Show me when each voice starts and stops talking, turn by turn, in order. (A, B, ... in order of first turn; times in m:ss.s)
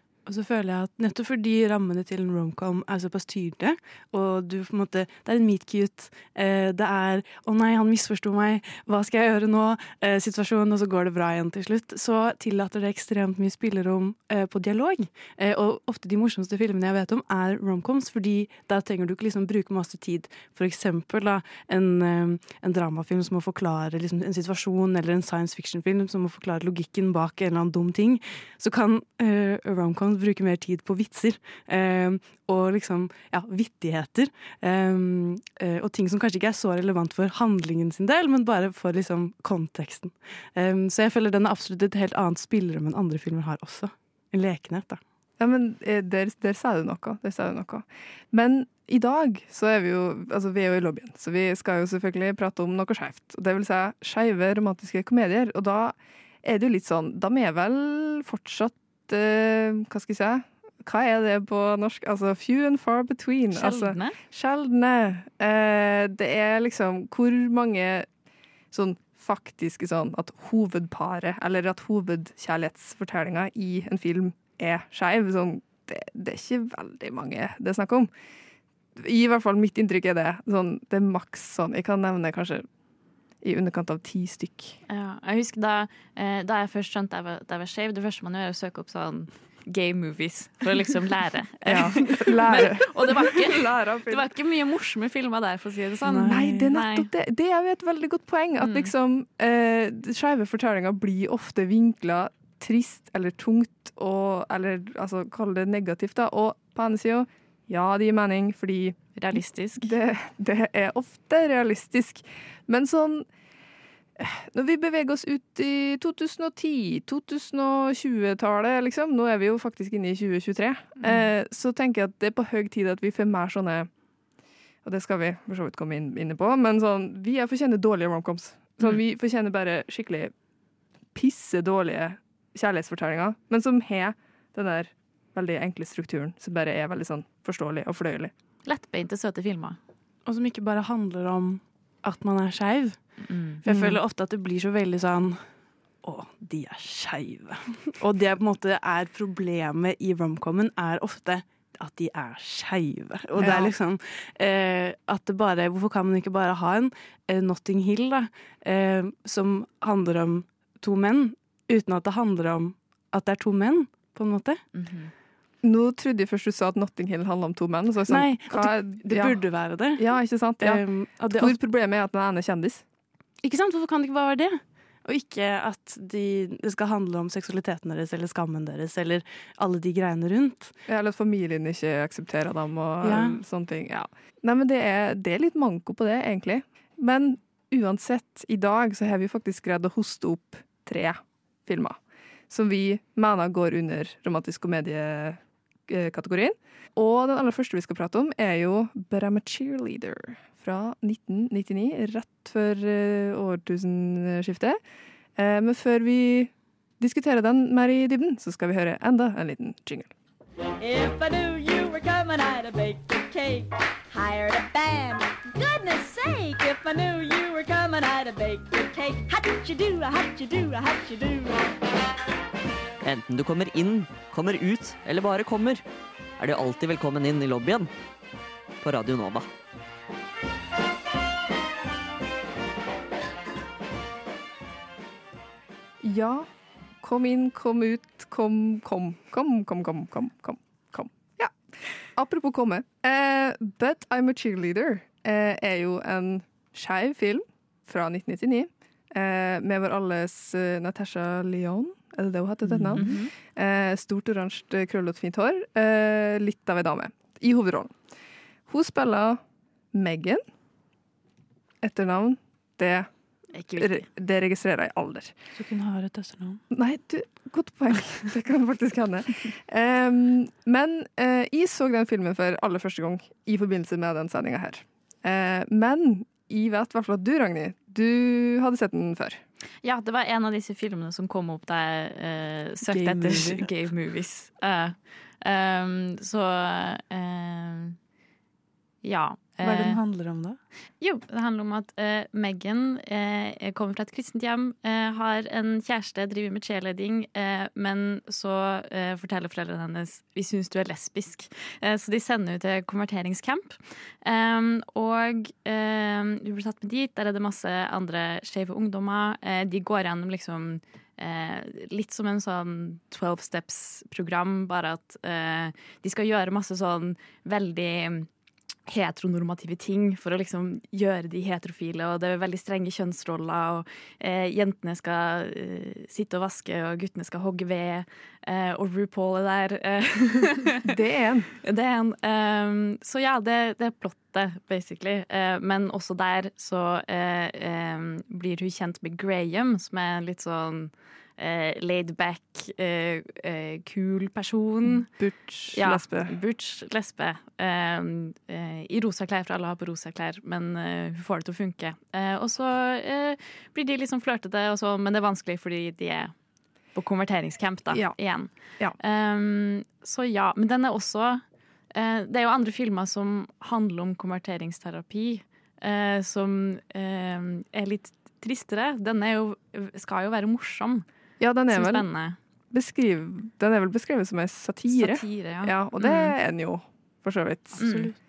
0:00.2-0:45.0 A
0:45.4-1:08.1 B
1:03.5-1:04.2 C
1:08.7-1:18.1 B
1:19.0-1:22.6 B
1:23.4-1:24.8 B
1:24.9-1:37.1 C
1:31.6-1:34.3 B
1:36.0-1:36.7 A
1:36.3-1:53.2 B
1:38.6-1:38.9 C
1:49.2-1:49.9 C
1:54.2-2:03.9 B
2:01.0-2:01.3 C
2:04.8-2:10.3 B
2:11.1-2:18.3 B
2:18.6-2:19.8 C
2:20.2-2:23.0 A
2:23.2-2:23.6 C
2:23.6-2:25.4 A
2:23.7-2:24.0 B
2:26.0-2:44.6 A
2:33.4-2:33.7 B
2:44.7-2:45.1 C
2:45.6-2:49.4 B
2:48.1-2:51.6 A
2:49.9-2:52.8 B
2:53.4-3:00.7 A
3:00.9-3:12.0 B
3:03.0-3:03.4 A
3:12.5-3:24.8 B
3:25.4-3:30.1 B
3:30.8-3:41.7 D
3:43.0-3:45.8 E
3:46.4-3:47.9 E
3:48.8-3:49.5 E
3:56.0-3:56.5 B
3:57.0-4:01.5 B
4:02.1-4:17.9 B
4:12.7-4:13.1 A
4:13.0-4:13.3 C
4:18.7-4:19.4 B
4:19.9-4:20.4 B
4:21.8-4:23.1 B
4:23.5-4:24.1 C
4:23.8-4:25.3 B
4:25.5-4:26.6 A
4:26.7-4:39.4 B
4:39.8-4:48.0 C
4:42.9-4:43.7 A
4:49.0-4:50.0 C
4:49.6-4:50.6 A
4:51.0-5:18.3 C
5:18.9-5:30.8 C
5:30.8-5:31.5 B
5:31.6-5:45.1 C
5:44.9-5:46.3 B
5:45.7-5:56.3 C
5:56.9-6:11.0 C
5:57.9-5:58.2 B
6:11.4-6:12.1 B
6:11.7-6:12.4 C
6:12.7-6:17.8 B
6:14.9-6:16.3 C
6:17.8-6:18.1 A
6:17.8-6:18.1 C